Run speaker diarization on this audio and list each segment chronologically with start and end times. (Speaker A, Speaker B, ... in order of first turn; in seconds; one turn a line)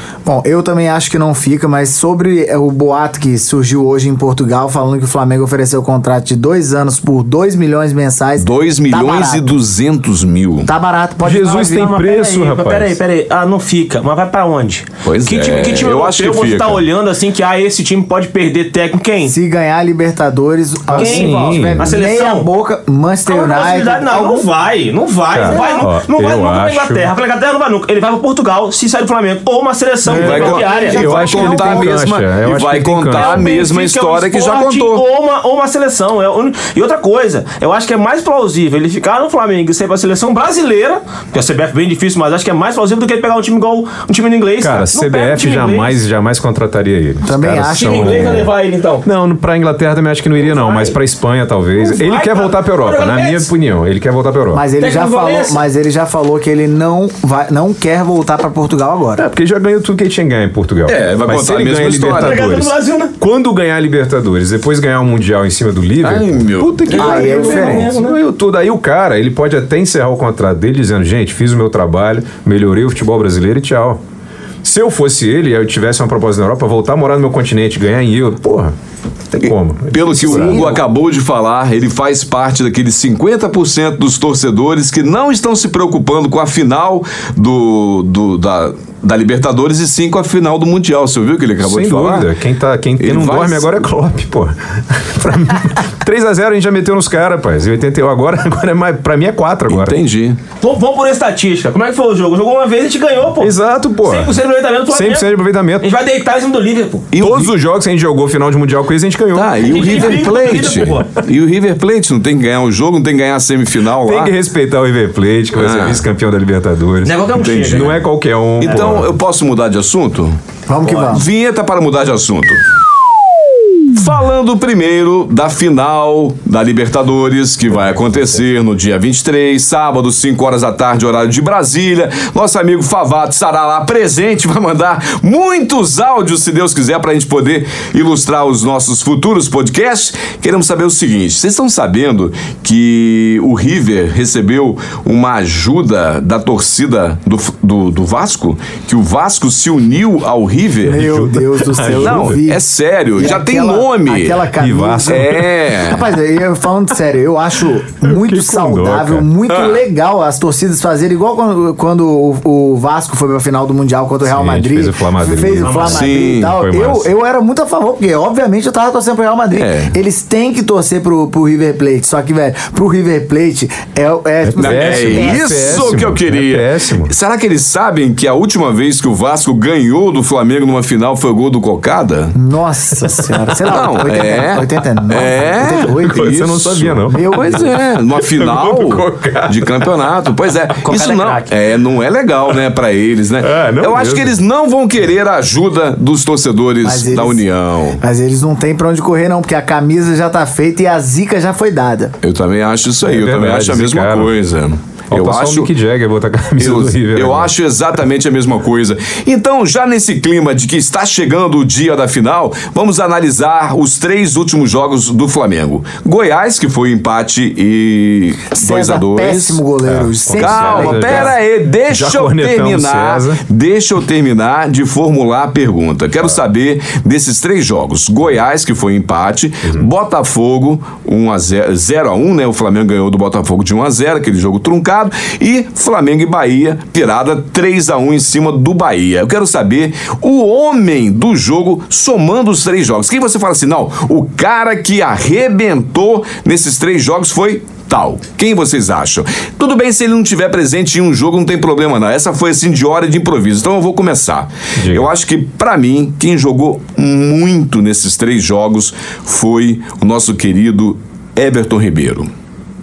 Speaker A: 0.2-9.5
Speaker B: 8.4-10.7
Speaker A: 10.7-11.9
Speaker C: 11.2-13.0
Speaker D: 11.5-19.3
Speaker B: 15.0-16.8
Speaker A: 19.2-24.5
Speaker C: 20.9-22.0
Speaker D: 20.9-22.5
Speaker D: 23.2-31.0
Speaker C: 25.3-27.1
Speaker A: 25.5-25.9
Speaker C: 30.1-33.5
Speaker A: 30.1-32.0
Speaker B: 30.1-35.0
Speaker D: 33.1-46.0
Speaker C: 44.6-48.5
Speaker A: 47.2-48.5
Speaker D: 47.7-49.0
Speaker C: 49.0-54.6
Speaker D: 50.4-51.0
Speaker D: 51.8-53.5
Speaker A: 54.5-59.2
Speaker D: 54.8-55.6
Speaker C: 59.2-74.0
Speaker B: 60.9-62.4
Speaker D: 62.1-63.1
Speaker B: 66.0-67.3
Speaker D: 66.9-68.2
Speaker A: 66.9-67.9
Speaker C: 74.6-78.7
Speaker C: 79.3-80.8
Speaker B: 79.4-92.3
Speaker A: 80.1-80.8
Speaker C: 91.6-100.0
Speaker B: 93.0-93.8
Speaker B: 99.7-100.4
Speaker D: 100.6-107.1
Speaker C: 103.4-104.4
Speaker C: 104.9-105.9
Speaker B: 107.1-107.5
Speaker C: 107.2-110.8
Speaker B: 109.3-114.3
Speaker D: 109.6-111.1
Speaker C: 114.0-119.1
Speaker B: 115.5-116.0
Speaker D: 117.0-117.9
Speaker B: 117.3-118.0
Speaker B: 118.6-122.6
Speaker A: 120.7-121.2
Speaker D: 120.8-121.1
Speaker B: 123.9-151.1
Speaker A: 150.8-152.6
Speaker C: 150.9-152.4
Speaker B: 151.9-154.5
Speaker A: 153.2-175.9
Speaker C: 154.6-155.7
Speaker B: 155.0-156.1
Speaker C: 158.0-159.3
Speaker B: 159.5-159.8
Speaker C: 164.2-167.1
Speaker D: 165.6-166.0
Speaker B: 165.8-166.6
Speaker B: 169.5-169.9
Speaker C: 174.4-177.1
Speaker B: 174.6-182.3
Speaker A: 182.3-186.4
Speaker C: 183.1-183.8
Speaker B: 183.6-198.0
Speaker C: 185.8-189.9
Speaker A: 187.1-187.7
Speaker D: 190.8-191.5
Speaker C: 193.4-194.3
Speaker A: 196.8-197.4
Speaker A: 198.0-202.1
Speaker B: 202.2-205.7
Speaker C: 203.1-204.3
Speaker C: 205.1-207.5
Speaker B: 206.6-219.6
Speaker A: 218.5-221.3
Speaker C: 219.8-223.4
Speaker B: 220.3-262.3
Speaker C: 254.8-255.1